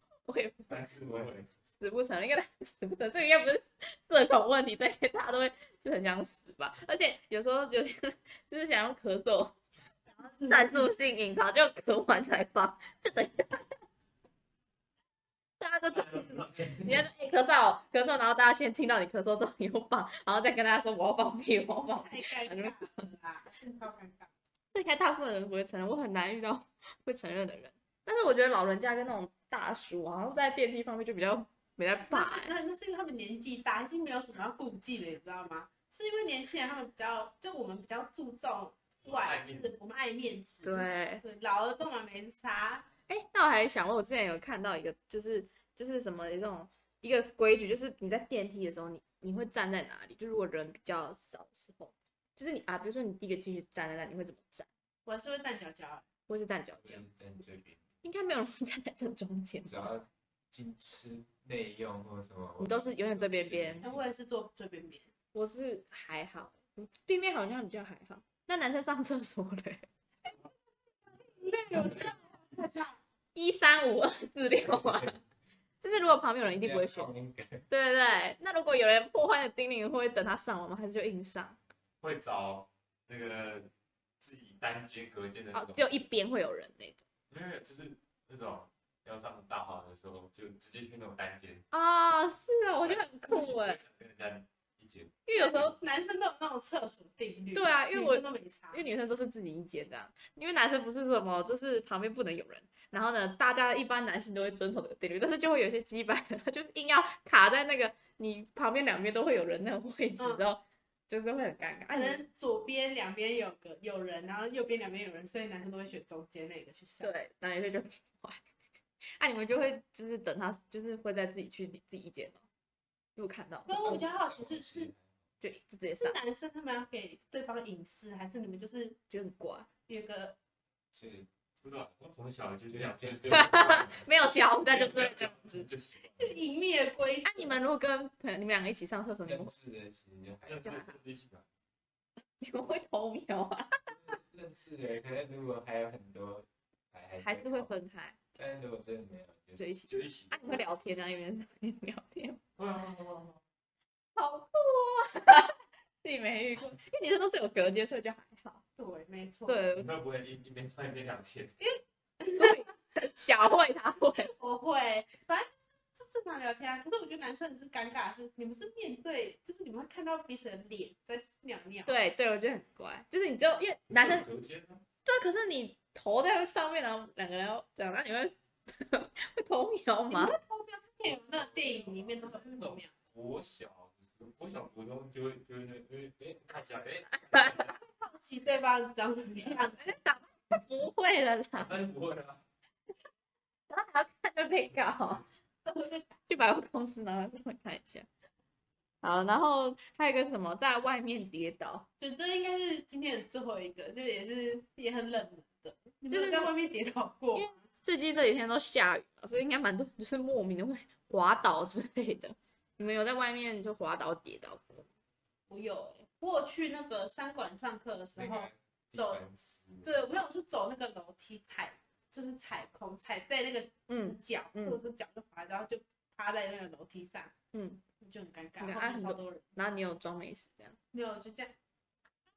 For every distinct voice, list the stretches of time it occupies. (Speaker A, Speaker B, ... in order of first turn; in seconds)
Speaker A: 0.3-0.8, 1.8-9.6, 10.4-13.7, 15.6-23.1, 24.7-32.5, 40.6-41.2, 43.1-54.7, 56.3-57.0, 58.0-60.0, 62.6-63.8, 65.3-69.9, 73.3-75.2, 75.8-77.1, 77.7-81.6, 85.5-87.0, 91.7-93.8, 95.3-95.8, 97.5-112.2, 117.0-118.4, 119.2-122.4, 123.2-124.0, 125.4-126.2, 129.1-129.7, 133.3-135.7, 137.2-139.5, 140.6-141.0, 142.4-143.9, 147.2-148.2, 149.6-152.4, 154.2-158.6, 159.5-159.9, 162.3-164.3, 171.8-174.3, 175.0-180.3, 187.3-187.6, 189.7-191.7, 193.7-195.2, 196.3-198.1, 199.0-201.9, 206.1-206.5, 207.3-214.9, 223.9-224.8, 227.5-227.8, 228.6-230.8
Speaker B: 0.7-1.5, 15.9-17.1, 39.0-39.7, 82.0-85.9, 87.3-91.7, 92.8-95.7, 131.6-136.4, 140.4-141.4, 149.9-150.7, 152.6-153.4, 159.7-161.7, 173.9-174.8, 181.3-187.8, 191.5-192.4
Speaker C: 1.0-1.3, 56.8-57.8, 59.6-64.0, 74.6-75.2, 76.4-77.6, 123.9-125.1, 130.9-131.3, 133.0-133.8, 139.2-140.8, 144.0-147.7, 148.3-149.7, 218.1-220.2
Speaker D: 10.1-10.9, 22.0-24.3, 32.1-42.9, 55.0-56.0, 63.8-65.1, 71.1-73.0, 95.6-98.8, 110.2-110.4, 111.9-117.1, 123.7-124.9, 125.9-129.0, 129.9-130.4, 136.2-137.6, 158.8-159.6, 161.6-162.7, 164.2-171.9, 180.1-182.9, 187.8-189.9, 195.6-196.3, 202.0-207.6, 215.5-219.2, 219.8-227.3, 228.0-229.5, 230.9-231.5